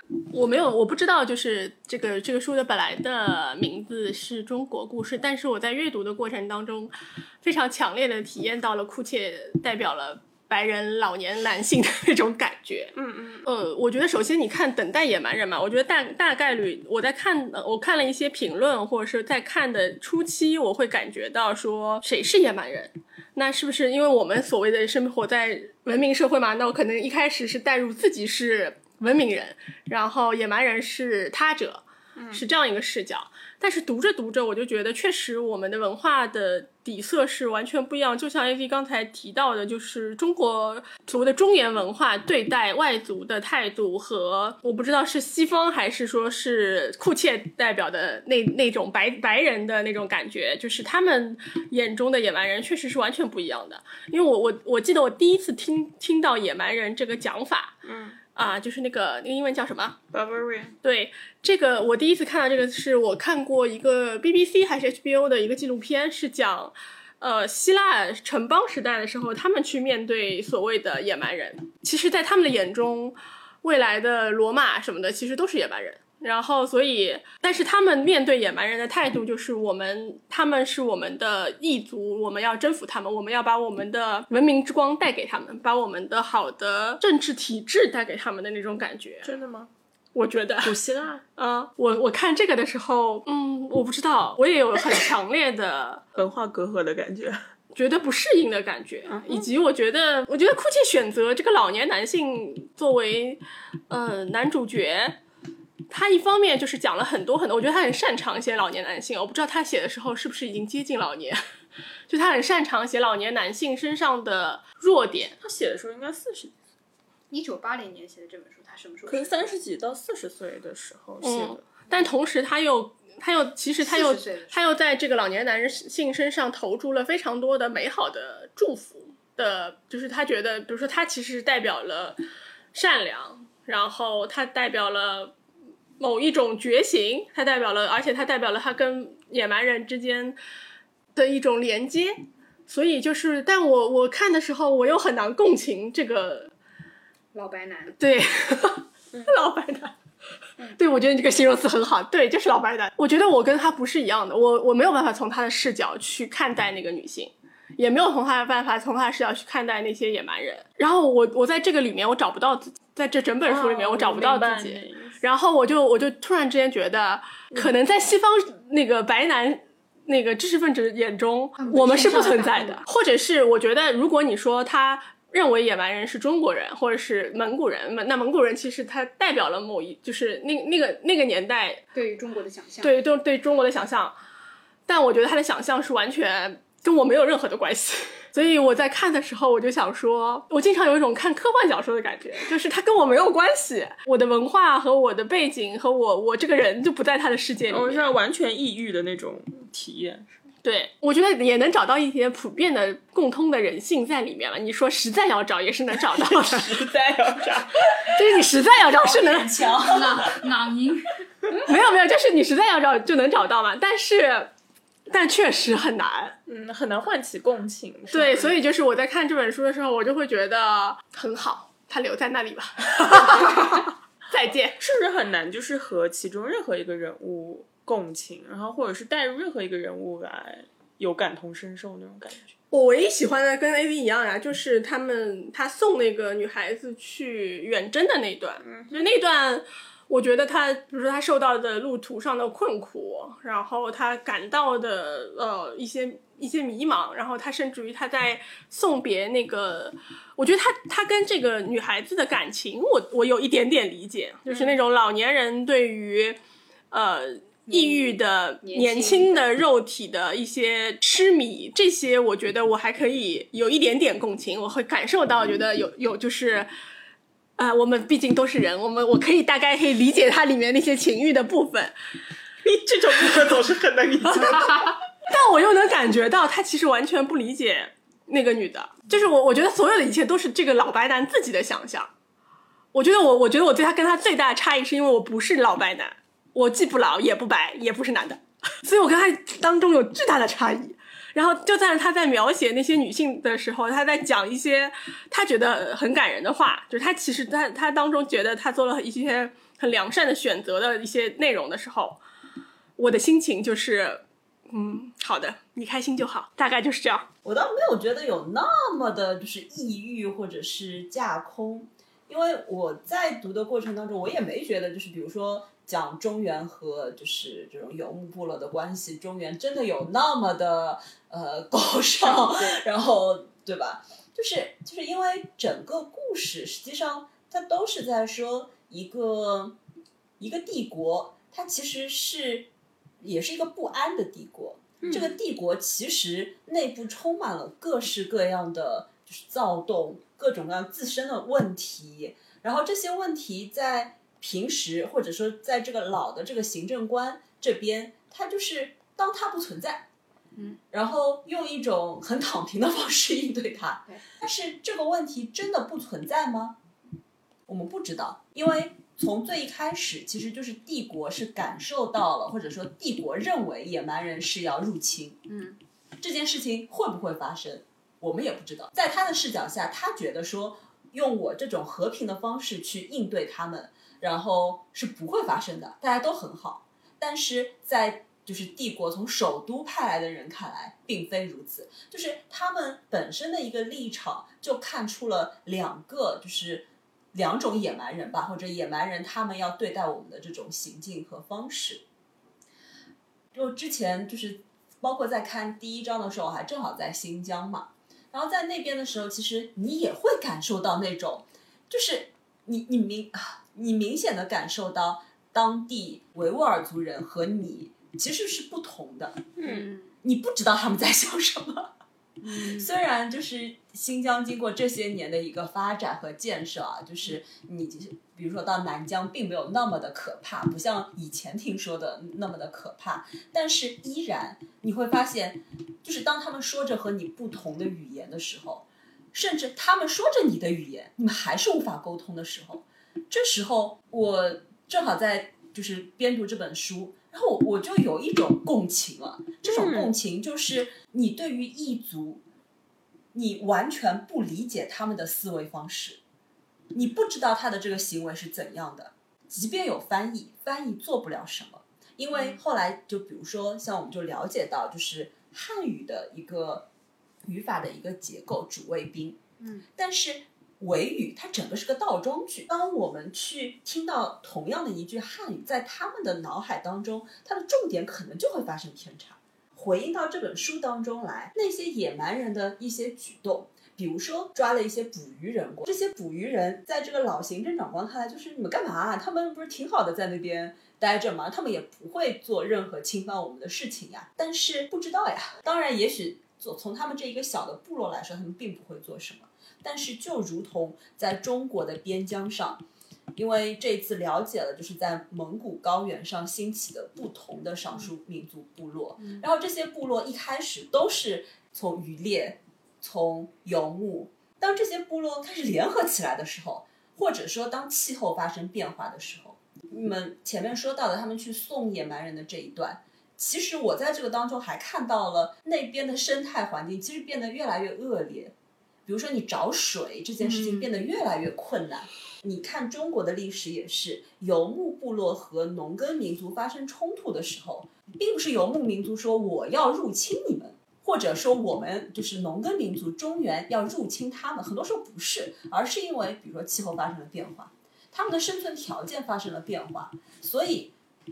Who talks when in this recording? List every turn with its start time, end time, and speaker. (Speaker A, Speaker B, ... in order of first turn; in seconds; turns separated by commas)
Speaker A: 0.3-12.9, Speaker B: 12.9-13.5, Speaker A: 13.4-57.8, Speaker B: 32.2-32.4, Speaker B: 57.8-58.2, Speaker A: 58.4-60.0, Speaker B: 60.1-60.8, Speaker A: 60.8-89.3, Speaker B: 89.2-89.7, Speaker A: 90.2-90.8, Speaker B: 90.6-91.2, Speaker A: 91.4-96.0, Speaker B: 96.2-97.5, Speaker A: 97.7-105.2, Speaker B: 99.1-99.5, Speaker A: 105.9-111.4, Speaker A: 112.1-115.4, Speaker B: 115.4-116.5, Speaker C: 117.3-119.6, Speaker B: 119.1-121.6, Speaker A: 121.2-132.2, Speaker C: 123.8-124.7, Speaker A: 132.7-135.3, Speaker A: 136.0-140.4, Speaker A: 141.2-146.5, Speaker C: 147.3-148.0, Speaker A: 148.0-150.0, Speaker A: 150.7-181.8, Speaker B: 163.5-165.2, Speaker C: 171.6-172.8, Speaker C: 181.9-182.9, Speaker A: 182.8-184.2, Speaker A: 184.9-198.1, Speaker B: 197.7-200.3, Speaker A: 200.6-206.8, Speaker B: 206.1-208.2, Speaker A: 207.9-209.6, Speaker D: 208.9-210.5, Speaker C: 209.8-211.2, Speaker A: 211.6-214.5, Speaker A: 215.1-216.4, Speaker B: 216.5-218.6, Speaker A: 218.1-224.8, Speaker B: 223.3-223.6, Speaker B: 224.8-232.4, Speaker A: 232.7-256.4, Speaker B: 238.6-239.2, Speaker B: 254.5-254.8, Speaker A: 256.9-266.7, Speaker C: 257.7-259.4, Speaker A: 267.6-271.9, Speaker B: 272.6-275.0, Speaker A: 274.3-282.1, Speaker A: 282.9-302.2, Speaker A: 303.0-307.3, Speaker D: 307.4-329.8, Speaker C: 322.2-322.8, Speaker D: 330.4-332.7, Speaker D: 333.2-350.1, Speaker B: 335.0-335.3, Speaker C: 350.6-350.8, Speaker D: 350.9-356.8, Speaker D: 357.7-365.5, Speaker C: 365.5-365.8, Speaker D: 366.2-392.1, Speaker D: 393.5-409.6, Speaker B: 409.6-409.9, Speaker C: 409.6-410.1, Speaker D: 410.2-411.9, Speaker C: 412.4-412.9, Speaker D: 412.5-442.4, Speaker B: 439.6-440.1, Speaker D: 443.3-446.2, Speaker D: 446.9-456.9, Speaker C: 452.3-452.6, Speaker D: 457.4-459.4, Speaker D: 459.9-492.8, Speaker D: 493.3-518.5, Speaker D: 519.1-540.9, Speaker C: 520.4-520.9